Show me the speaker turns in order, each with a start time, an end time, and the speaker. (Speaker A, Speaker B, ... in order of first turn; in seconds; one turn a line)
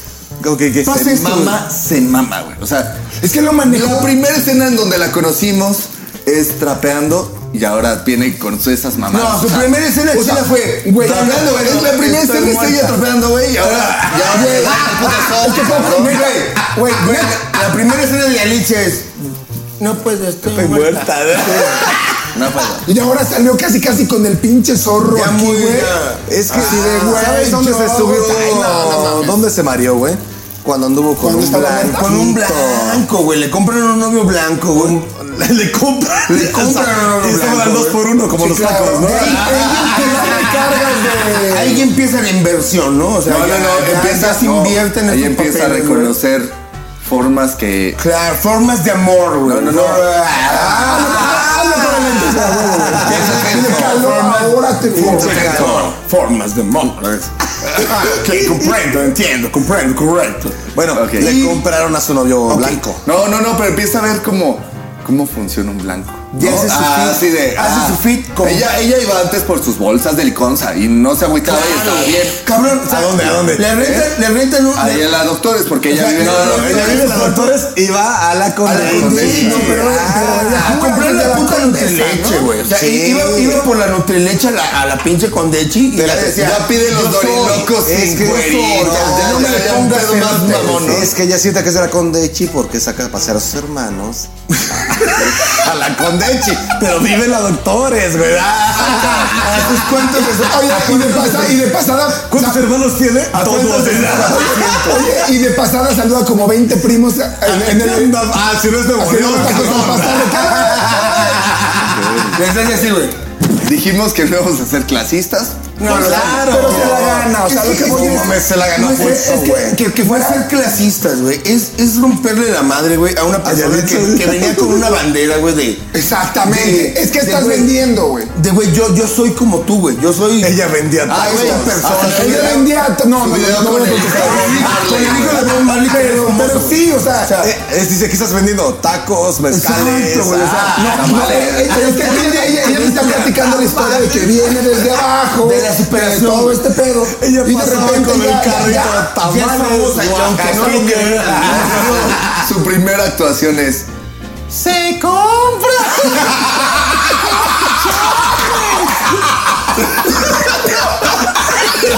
Speaker A: 0.4-1.1
Speaker B: 0.9-3.0
Speaker C: 0.9-1.6
Speaker D: 3.2-4.1
Speaker B: 3.7-9.7
Speaker C: 9.1-13.0
Speaker D: 10.1-11.9
Speaker B: 11.0-16.3
Speaker C: 13.9-14.7
Speaker D: 14.3-17.5
Speaker C: 15.6-21.8
Speaker A: 20.5-21.9
Speaker B: 22.3-22.9
Speaker D: 22.9-29.4
Speaker C: 25.1-27.4
Speaker A: 26.3-33.0
Speaker D: 31.2-32.1
Speaker C: 31.9-35.0
Speaker A: 34.7-40.6
Speaker C: 36.3-38.0
Speaker D: 38.3-41.9
Speaker C: 39.0-46.2
Speaker B: 43.2-48.0
Speaker C: 48.0-60.6
Speaker B: 49.4-50.1
Speaker D: 50.5-55.8
Speaker A: 51.1-54.0
Speaker A: 54.9-55.9
Speaker A: 60.7-63.0
Speaker B: 60.9-61.5
Speaker C: 61.2-61.6
Speaker B: 62.5-72.4
Speaker C: 66.3-68.7
Speaker A: 71.7-72.2
Speaker C: 72.3-75.1
Speaker A: 72.8-73.7
Speaker B: 73.8-74.2
Speaker B: 74.7-77.2
Speaker C: 75.9-77.6
Speaker A: 76.0-80.6
Speaker C: 78.6-87.7
Speaker B: 78.7-79.7
Speaker D: 79.0-82.5
Speaker A: 82.6-83.7
Speaker A: 85.9-86.4
Speaker B: 86.1-91.1
Speaker A: 87.8-89.9
Speaker C: 88.3-90.9
Speaker A: 90.6-99.8
Speaker C: 99.1-101.6
Speaker D: 100.3-102.7
Speaker A: 102.3-104.9
Speaker C: 103.3-105.1
Speaker D: 104.7-108.2
Speaker A: 107.5-112.3
Speaker D: 109.0-111.3
Speaker C: 109.2-111.4
Speaker B: 112.0-112.3
Speaker C: 112.3-113.2
Speaker B: 113.6-116.1
Speaker C: 115.8-125.8
Speaker A: 115.8-119.8
Speaker D: 115.9-120.5
Speaker A: 123.4-124.9
Speaker D: 125.9-128.3
Speaker C: 126.4-127.8
Speaker C: 128.3-130.6
Speaker A: 130.4-132.1
Speaker B: 131.1-135.6
Speaker C: 131.1-132.6
Speaker D: 132.0-134.8
Speaker C: 133.9-137.6
Speaker D: 135.4-137.4
Speaker A: 137.4-141.1
Speaker C: 139.5-144.6
Speaker D: 140.7-149.0
Speaker B: 140.8-141.8
Speaker C: 145.4-146.6
Speaker A: 147.1-152.4
Speaker C: 149.1-152.2
Speaker B: 151.5-153.9
Speaker A: 154.5-159.6
Speaker A: 160.1-160.7
Speaker A: 161.3-161.7